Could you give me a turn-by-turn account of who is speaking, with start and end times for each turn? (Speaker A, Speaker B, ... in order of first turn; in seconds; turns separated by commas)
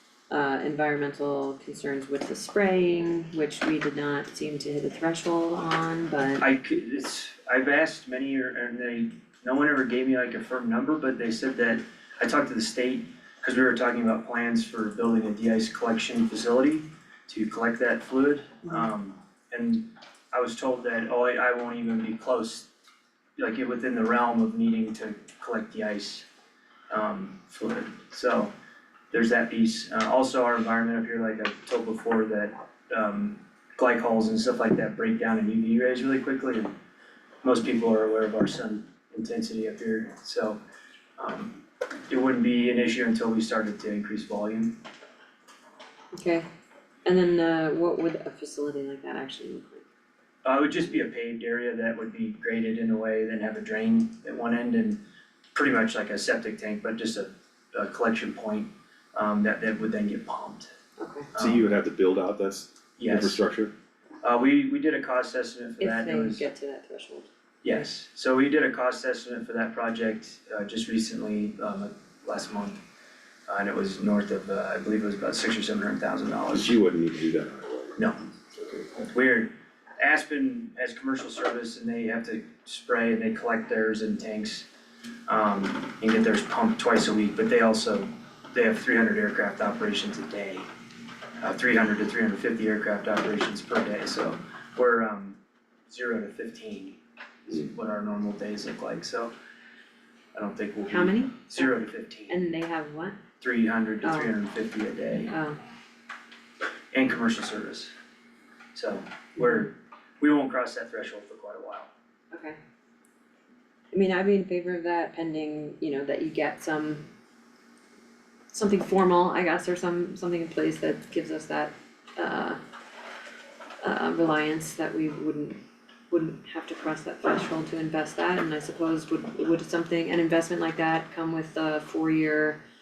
Speaker A: 0.3-6.5, Speaker B: 6.4-22.7, Speaker B: 23.4-26.3, Speaker B: 26.9-28.5, Speaker B: 29.1-36.7, Speaker B: 37.4-40.6, Speaker B: 41.2-44.8, Speaker A: 46.1-46.5, Speaker A: 47.0-49.9, Speaker B: 50.4-55.0, Speaker B: 55.5-60.7, Speaker A: 61.0-61.3, Speaker B: 61.3-61.7, Speaker C: 61.4-63.7, Speaker B: 63.0-63.4, Speaker B: 64.2-66.5, Speaker A: 65.8-67.3, Speaker B: 67.6-72.8, Speaker B: 73.5-76.8, Speaker C: 76.5-78.0, Speaker B: 79.1-84.7, Speaker B: 85.3-90.7, Speaker B: 91.4-99.3, Speaker B: 100.3-102.4, Speaker A: 100.9-103.2, Speaker B: 103.4-105.3, Speaker A: 104.0-104.4, Speaker A: 105.2-105.6, Speaker B: 106.9-107.9, Speaker B: 108.8-111.9, Speaker A: 109.4-109.7, Speaker A: 112.3-112.6, Speaker A: 113.9-117.0, Speaker A: 118.5-122.6, Speaker A: 123.8-132.6